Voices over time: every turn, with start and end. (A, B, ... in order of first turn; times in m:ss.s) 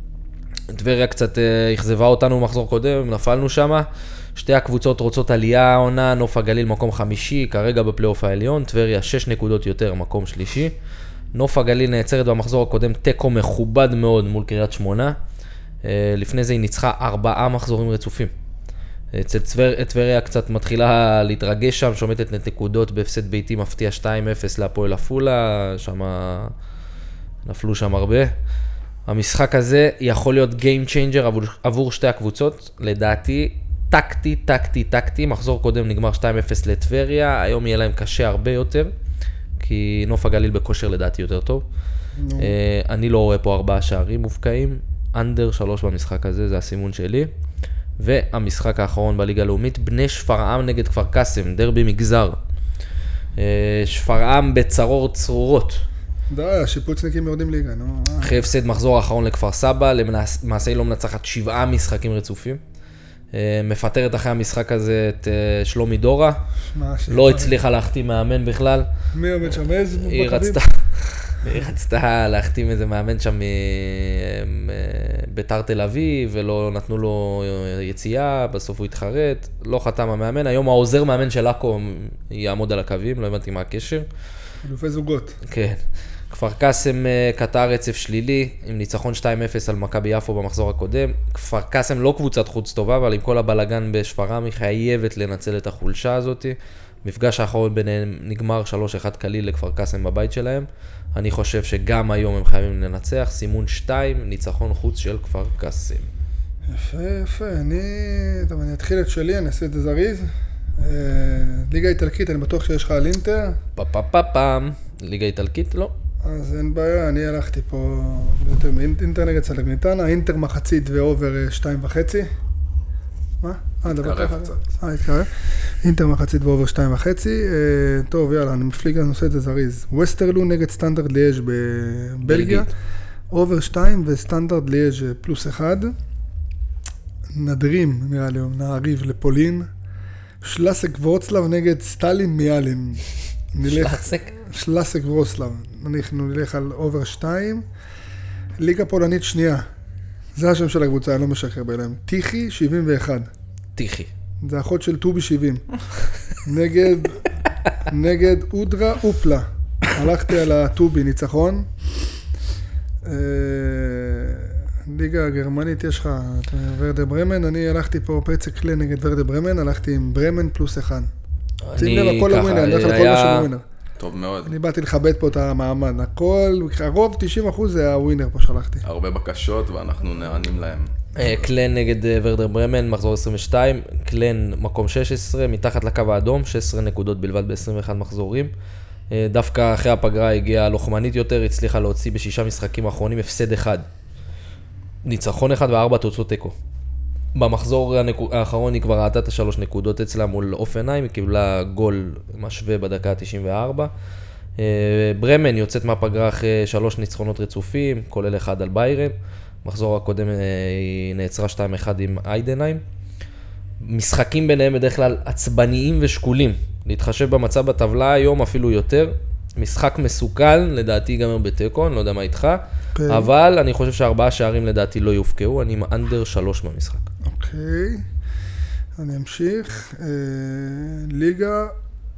0:00.7-0:10.7 A
0:11.3-0:15.2 A
0:15.8-0:18.3 A
0:19.1-0:26.5 A
0:27.4-0:28.3 A
0:29.1-0:38.9 A
0:39.6-0:41.6 A
0:42.2-0:42.6 B
0:42.4-0:47.3 A
0:48.0-0:52.4 A
0:53.4-0:55.8 A
0:56.3-0:58.4 B
0:58.2-1:02.6 A
1:03.3-1:06.4 A
1:06.7-1:07.6 B
1:07.1-1:08.9 A
1:09.1-1:10.6 B
1:09.4-1:24.1 A
1:24.6-1:25.4 B
1:25.4-1:46.1 A
1:46.6-1:53.6 B
1:53.8-1:55.9 A
1:56.2-2:02.3 B
2:03.4-2:12.7 B
2:03.8-2:04.6 C
2:12.2-2:12.7 A
2:13.3-2:15.9 B
2:17.3-2:19.7 B
2:20.4-2:27.6 B
2:23.6-2:24.3 A
2:28.6-2:29.6 B
2:30.4-2:33.3 B
2:33.8-2:34.1 A
2:34.4-2:35.6 B
2:36.4-2:41.7 B
2:43.0-2:51.1 B
2:51.6-2:53.5 A
2:51.8-2:53.6 B
2:54.0-2:54.5 C
2:54.4-2:58.8 B
2:58.8-3:01.3 C
3:01.1-3:08.5 A
3:09.1-3:13.9 A
3:15.0-3:16.6 A
3:17.3-3:23.9 A
3:24.6-3:32.8 A
3:33.8-3:47.0 A
3:42.9-3:43.3 B
3:47.2-3:48.0 B
3:49.0-3:51.7 B